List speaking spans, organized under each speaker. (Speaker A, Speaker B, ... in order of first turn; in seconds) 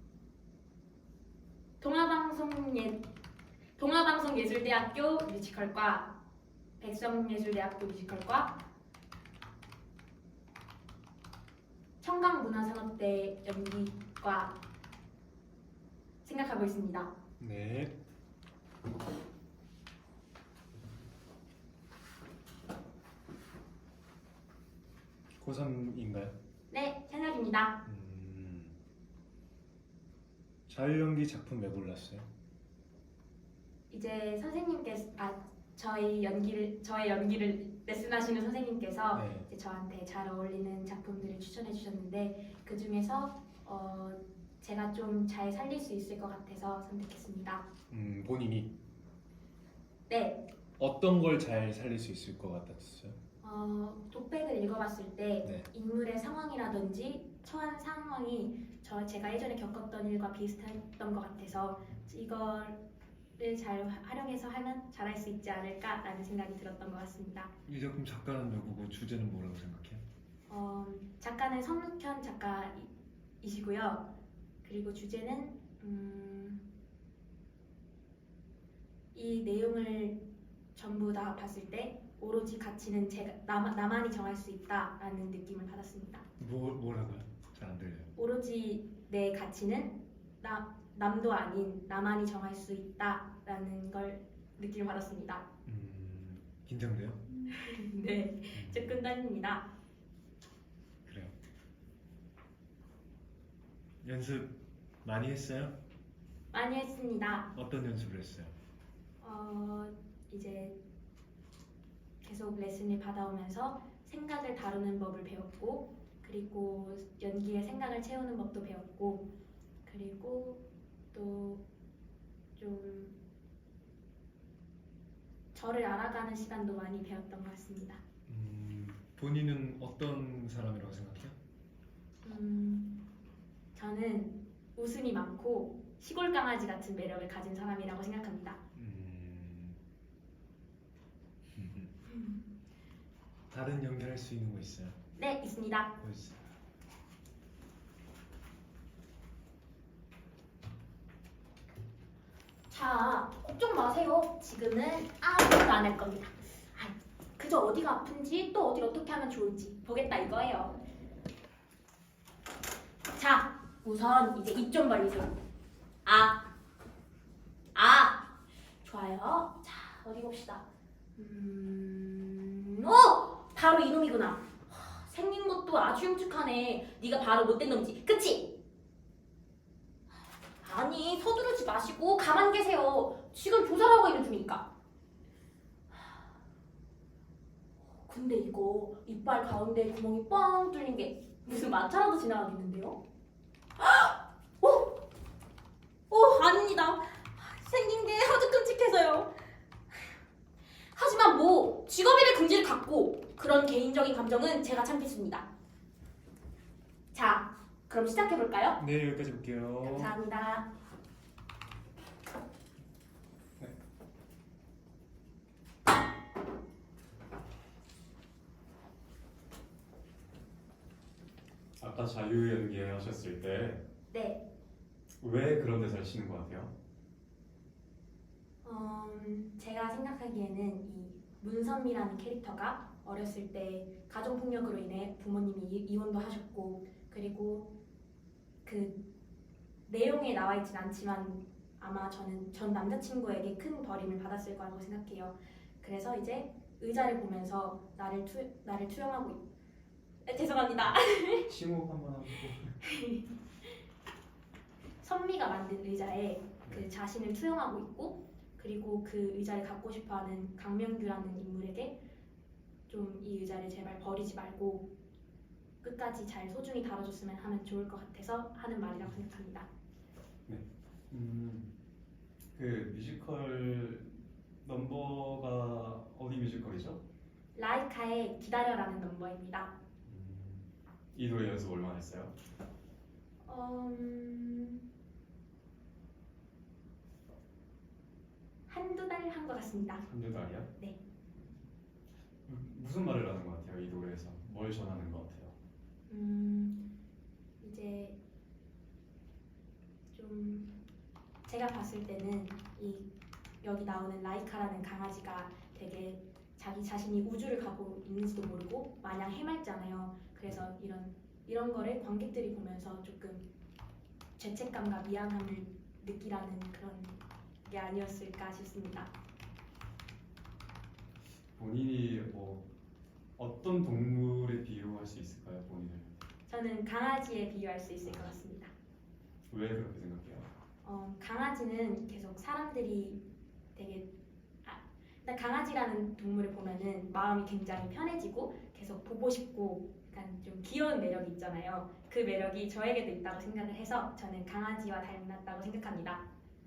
Speaker A: 1.8-3.0, 3.8-6.1, 6.8-8.6, 12.0-14.6, 16.2-17.1, 26.7-27.8, 33.9-47.6, 50.1-50.4, 53.4-62.8, 63.4-67.5, 70.5-72.9, 73.4-74.1, 74.6-76.6, 79.1-80.2, 80.7-86.2, 88.2-95.4, 97.5-99.7, 106.5-107.5, 109.2-110.8, 112.2-119.3, 119.8-121.6, 122.6-123.1, 125.5-128.0, 132.2-133.1, 133.7-138.6, 142.1-142.4, 145.2-145.9, 152.7-160.8, 163.2-165.3, 166.0-166.4, 167.7-168.2, 168.8-170.6, 171.2-178.5, 180.6-184.6, 188.0-193.0, 193.8-194.9, 196.1-199.3, 200.9-205.4, 207.1-208.8, 209.8-210.7, 224.1-224.4, 228.6-237.7, 238.7-239.0, 239.8-249.4, 250.2-251.5, 252.8-253.2, 255.0-262.0, 262.9-264.9, 265.8-269.7, 277.5-279.7, 283.4-284.8, 288.7-290.0, 296.1-296.9, 297.6-298.2, 300.1-300.8, 301.5-303.1, 303.6-313.4, 314.4-319.1, 326.5-328.7, 330.8-333.2, 333.7-334.1, 334.6-346.2
Speaker B: 17.4-18.0, 25.3-26.3, 27.9-28.8, 30.7-32.3, 39.1-39.5, 47.9-48.7, 50.8-53.2, 67.7-70.0, 86.4-88.1, 95.7-97.2, 98.5-99.0, 101.0-101.3, 104.0-105.7, 107.5-108.5, 128.3-131.3, 138.7-139.8, 141.5-141.9, 143.5-145.0, 146.0-146.4, 208.8-210.1
Speaker C: 221.8-223.8, 225.2-226.7, 251.5-252.7, 270.5-271.7, 272.5-277.0, 280.1-282.3, 290.0-290.7, 292.4-295.5, 321.5-322.6, 323.4-326.1, 328.1-328.3, 329.5-330.4